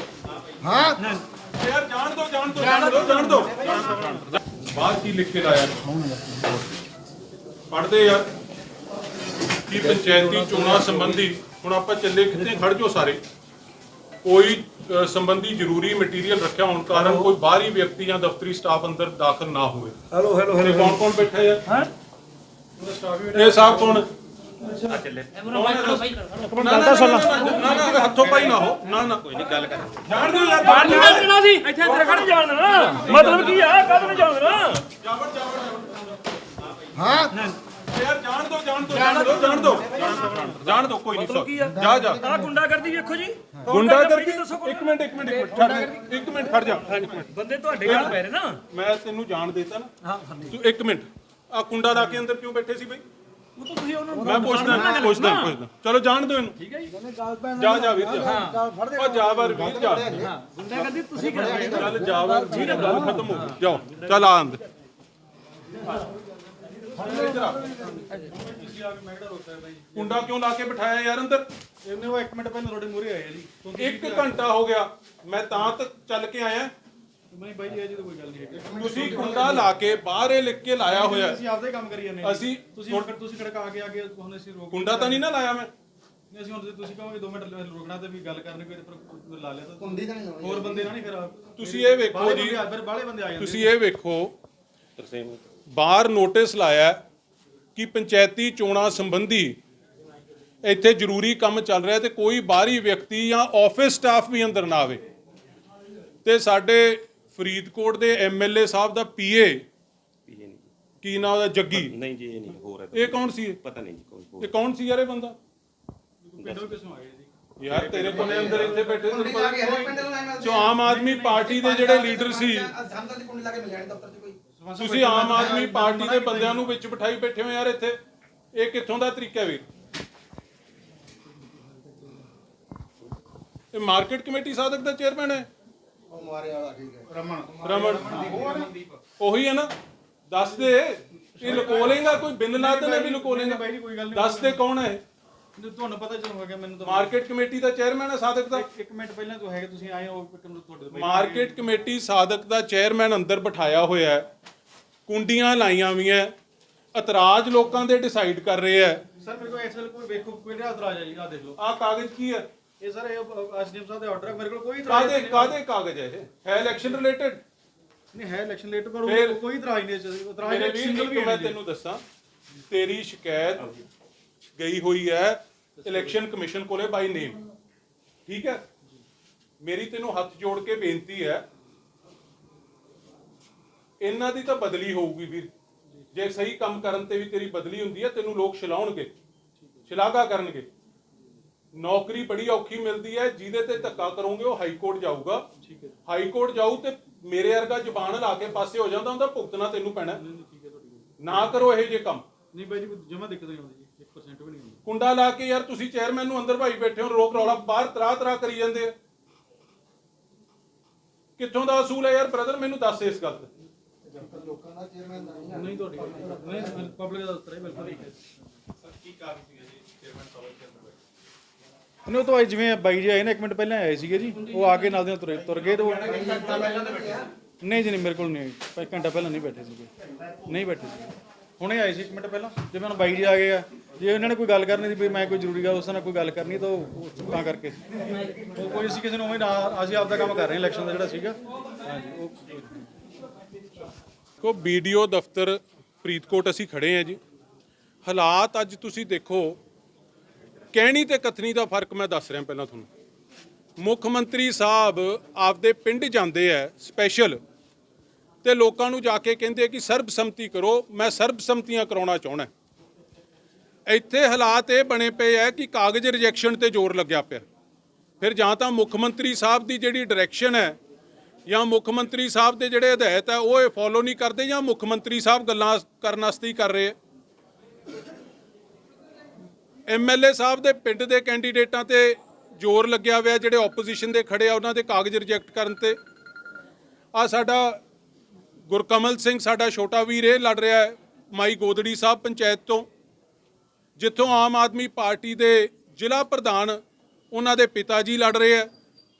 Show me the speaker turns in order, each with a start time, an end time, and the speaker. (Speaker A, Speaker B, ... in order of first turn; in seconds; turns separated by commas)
Speaker A: 0.5-0.8, Speaker B: 0.9-1.2, Speaker A: 1.5-6.0, Speaker A: 7.7-8.3, Speaker A: 9.7-13.2, Speaker A: 14.2-20.0, Speaker B: 20.1-21.0, Speaker A: 20.6-21.6, Speaker C: 22.8-24.0, Speaker A: 23.3-24.1, Speaker B: 24.8-27.9, Speaker A: 25.4-29.5, Speaker D: 29.4-30.0, Speaker A: 30.0-34.2, Speaker B: 30.5-34.9, Speaker A: 34.9-36.1, Speaker B: 37.3-37.6, Speaker A: 37.8-42.3, Speaker B: 39.0-39.8, Speaker B: 41.1-46.1, Speaker A: 43.6-47.2, Speaker B: 46.9-48.6, Speaker A: 47.8-48.2, Speaker A: 48.7-49.9, Speaker B: 50.0-50.5, Speaker A: 50.5-53.0, Speaker B: 53.6-55.5, Speaker A: 54.2-56.6, Speaker C: 56.6-56.9, Speaker A: 57.4-58.4, Speaker B: 58.1-59.0, Speaker A: 58.9-60.3, Speaker B: 60.2-63.5, Speaker A: 61.4-64.6, Speaker C: 65.8-66.0, Speaker C: 66.7-70.2, Speaker A: 67.0-67.9, Speaker A: 69.9-71.4, Speaker C: 71.8-74.4, Speaker A: 73.7-76.7, Speaker C: 77.3-79.7, Speaker A: 78.7-81.4, Speaker C: 80.8-85.2, Speaker A: 82.2-83.1, Speaker A: 84.7-85.7, Speaker C: 86.3-93.7, Speaker D: 89.8-90.8, Speaker A: 91.5-92.6, Speaker A: 93.4-94.3, Speaker D: 95.0-95.4, Speaker A: 95.7-97.0, Speaker A: 97.8-99.6, Speaker A: 100.6-105.0, Speaker A: 106.2-109.6, Speaker D: 110.2-110.7, Speaker A: 111.0-112.0, Speaker D: 111.7-114.5, Speaker A: 112.9-113.6, Speaker A: 114.4-115.3, Speaker C: 116.2-120.0, Speaker D: 116.4-116.7, Speaker A: 117.6-122.7, Speaker D: 117.9-124.4, Speaker C: 124.5-126.7, Speaker A: 124.8-128.0, Speaker A: 128.5-129.6, Speaker A: 133.7-135.5, Speaker D: 136.1-138.7, Speaker A: 137.6-138.2, Speaker C: 138.0-138.7, Speaker A: 139.2-139.7, Speaker A: 140.3-145.0, Speaker C: 141.3-144.6, Speaker C: 145.6-147.2, Speaker A: 146.8-148.6, Speaker C: 148.5-151.7, Speaker A: 150.9-154.3, Speaker A: 155.1-156.3, Speaker A: 156.9-159.0, Speaker C: 159.1-161.6, Speaker A: 161.6-162.5, Speaker C: 162.8-165.6, Speaker A: 164.9-167.4, Speaker C: 168.1-171.6, Speaker A: 169.1-169.4, Speaker A: 170.4-172.0, Speaker A: 172.7-173.8, Speaker A: 174.6-177.4, Speaker C: 175.8-176.1, Speaker A: 178.3-178.6, Speaker A: 179.6-181.4, Speaker A: 184.0-185.5, Speaker A: 186.1-189.1, Speaker A: 189.9-190.7, Speaker A: 191.7-195.4, Speaker C: 195.6-195.9, Speaker A: 196.1-200.2, Speaker C: 200.1-201.3, Speaker A: 201.2-202.2, Speaker C: 202.5-204.8, Speaker A: 204.8-208.9, Speaker A: 211.4-213.5, Speaker D: 214.2-215.6, Speaker C: 215.5-218.2, Speaker C: 222.0-226.4, Speaker D: 226.0-227.3, Speaker C: 227.6-229.9, Speaker C: 230.4-237.8, Speaker C: 238.5-242.7, Speaker A: 244.4-247.2, Speaker A: 248.0-249.6, Speaker A: 250.7-252.9, Speaker A: 253.8-257.4, Speaker A: 258.4-262.5, Speaker A: 263.9-267.4, Speaker A: 268.2-270.8, Speaker A: 271.5-276.9, Speaker A: 279.9-286.0, Speaker A: 287.1-287.8, Speaker A: 288.7-292.9, Speaker A: 294.0-296.8, Speaker A: 297.3-298.7